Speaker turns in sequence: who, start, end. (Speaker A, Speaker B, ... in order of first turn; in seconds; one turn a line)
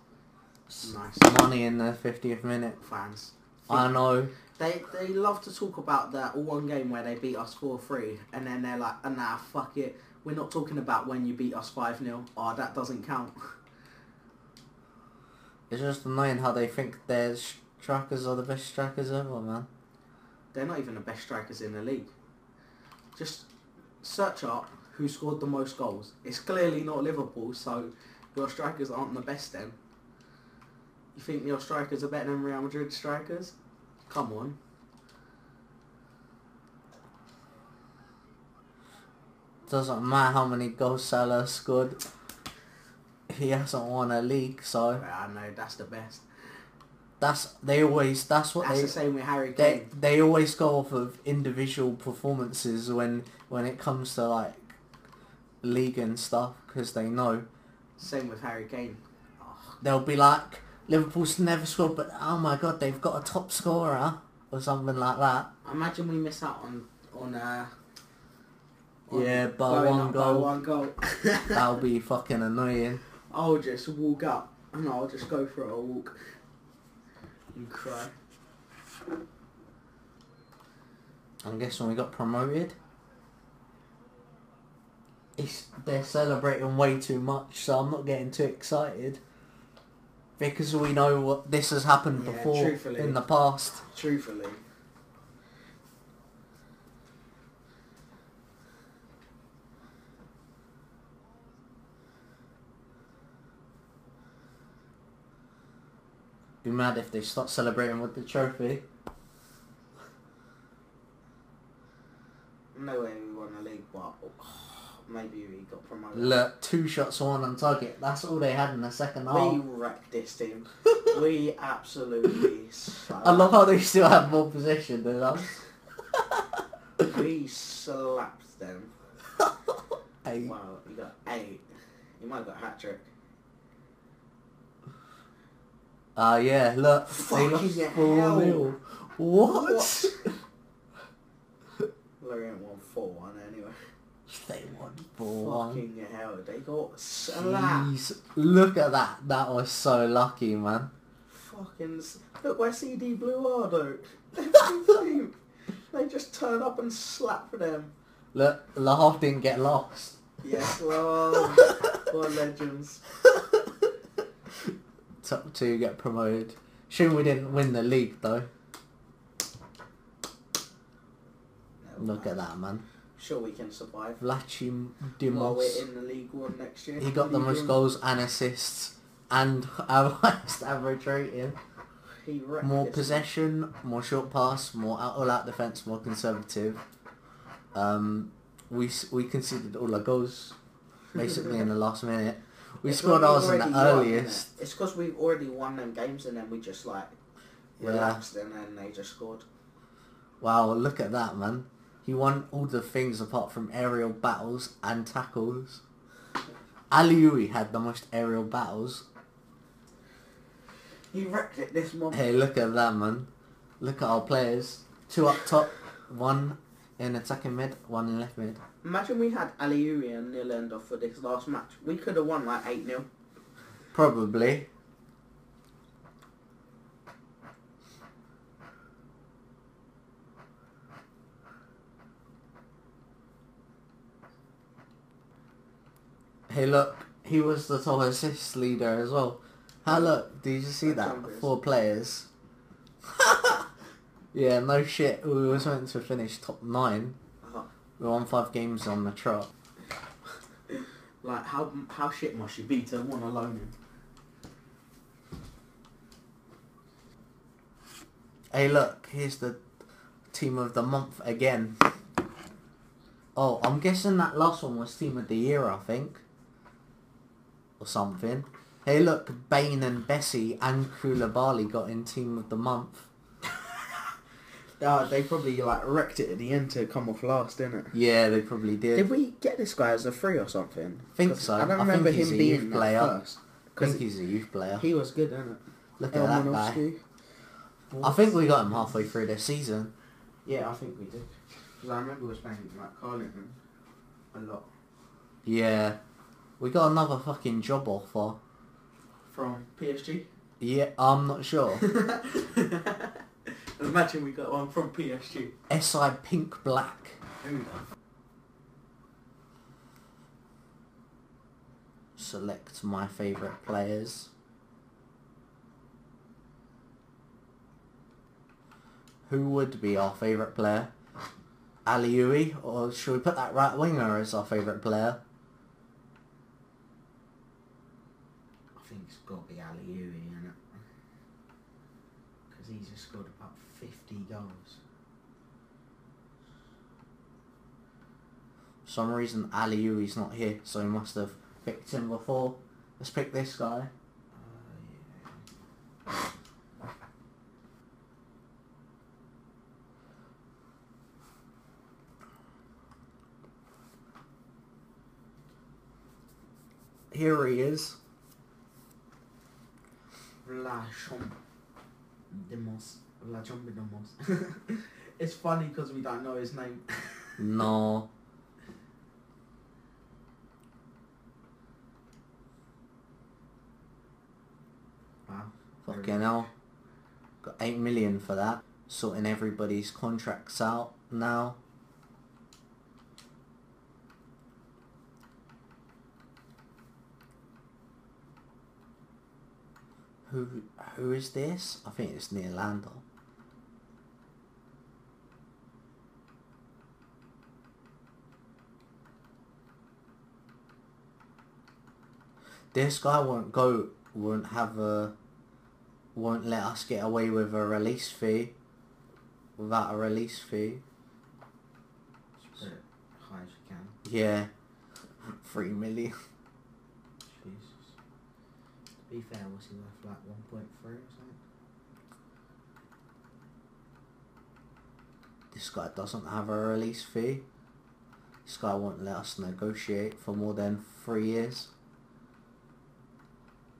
Speaker A: 0.7-2.8
Speaker B: 0.8-1.5
Speaker B: 2.8-3.9
Speaker A: 3.7-4.3
Speaker B: 4.5-13.6
Speaker A: 15.7-19.7
Speaker B: 20.5-22.1
Speaker B: 23.1-23.5
Speaker B: 24.0-29.8
Speaker B: 31.1-33.5
Speaker B: 34.1-34.6
Speaker A: 39.7-42.0
Speaker A: 43.3-45.0
Speaker B: 45.0-46.2
Speaker A: 47.2-49.0
Speaker B: 48.6-49.9
Speaker A: 49.5-54.8
Speaker A: 55.6-57.5
Speaker B: 58.0-59.8
Speaker A: 59.8-65.5
Speaker B: 65.6-67.7
Speaker B: 69.1-71.7
Speaker A: 69.1-70.5
Speaker A: 71.5-73.0
Speaker B: 73.3-76.2
Speaker B: 77.5-78.1
Speaker A: 81.4-82.7
Speaker A: 85.3-89.2
Speaker A: 90.4-93.8
Speaker B: 92.2-93.2
Speaker B: 93.8-94.6
Speaker A: 106.6-108.8
Speaker B: 112.7-116.4
Speaker A: 116.1-119.6
Speaker B: 119.3-123.7
Speaker A: 123.2-125.5
Speaker B: 127.0-128.9
Speaker A: 130.2-130.5
Speaker B: 130.3-131.6
Speaker B: 132.2-133.1
Speaker A: 136.2-140.3
Speaker B: 137.1-138.7
Speaker B: 139.5-140.3
Speaker B: 142.2-143.8
Speaker A: 144.3-145.8
Speaker B: 145.2-147.9
Speaker A: 147.2-150.9
Speaker B: 151.3-155.4
Speaker B: 155.9-157.9
Speaker A: 158.3-160.2
Speaker B: 160.4-163.0
Speaker A: 165.2-168.5
Speaker B: 171.8-172.4
Speaker A: 172.0-172.8
Speaker B: 173.2-174.2
Speaker A: 174.2-175.8
Speaker B: 175.3-177.8
Speaker A: 177.0-181.6
Speaker B: 182.2-183.3
Speaker A: 182.6-186.8
Speaker A: 187.7-190.6
Speaker A: 191.1-194.5
Speaker B: 192.8-197.2
Speaker A: 197.8-198.2
Speaker B: 197.8-199.4
Speaker A: 200.4-205.8
Speaker A: 206.9-209.0
Speaker B: 211.1-212.2
Speaker A: 212.1-213.3
Speaker A: 213.8-218.6
Speaker B: 218.8-223.1
Speaker A: 223.9-224.7
Speaker A: 236.5-242.3
Speaker B: 240.8-241.5
Speaker A: 243.1-243.7
Speaker A: 244.3-247.2
Speaker A: 248.0-249.5
Speaker B: 251.2-253.7
Speaker A: 258.5-259.6
Speaker A: 260.3-261.9
Speaker A: 263.3-266.2
Speaker A: 267.8-273.1
Speaker B: 274.8-277.9
Speaker A: 277.9-279.1
Speaker B: 278.9-284.0
Speaker A: 281.1-283.1
Speaker A: 283.8-284.8
Speaker B: 284.8-287.0
Speaker A: 286.0-286.8
Speaker B: 287.9-288.7
Speaker A: 288.0-289.9
Speaker B: 290.4-293.6
Speaker B: 294.3-294.7
Speaker A: 295.4-296.0
Speaker A: 296.6-298.4
Speaker B: 299.3-300.3
Speaker A: 300.6-301.8
Speaker B: 301.8-305.5
Speaker A: 305.7-307.2
Speaker B: 307.4-307.8
Speaker A: 312.1-314.3
Speaker A: 319.3-320.9
Speaker A: 321.8-325.2
Speaker B: 328.8-330.8
Speaker B: 332.5-334.8
Speaker A: 338.8-343.9
Speaker B: 344.3-345.4
Speaker A: 357.1-358.0
Speaker B: 360.4-361.4
Speaker B: 362.3-367.4
Speaker A: 367.4-368.1
Speaker B: 375.3-376.5
Speaker A: 375.9-376.5
Speaker A: 377.4-381.6
Speaker A: 390.2-393.0
Speaker A: 402.7-405.1
Speaker A: 406.1-408.5
Speaker A: 409.6-410.8
Speaker B: 412.4-414.0
Speaker A: 414.0-414.5
Speaker A: 415.2-416.1
Speaker B: 417.2-417.9
Speaker B: 419.1-421.4
Speaker A: 425.5-427.4
Speaker A: 428.4-431.7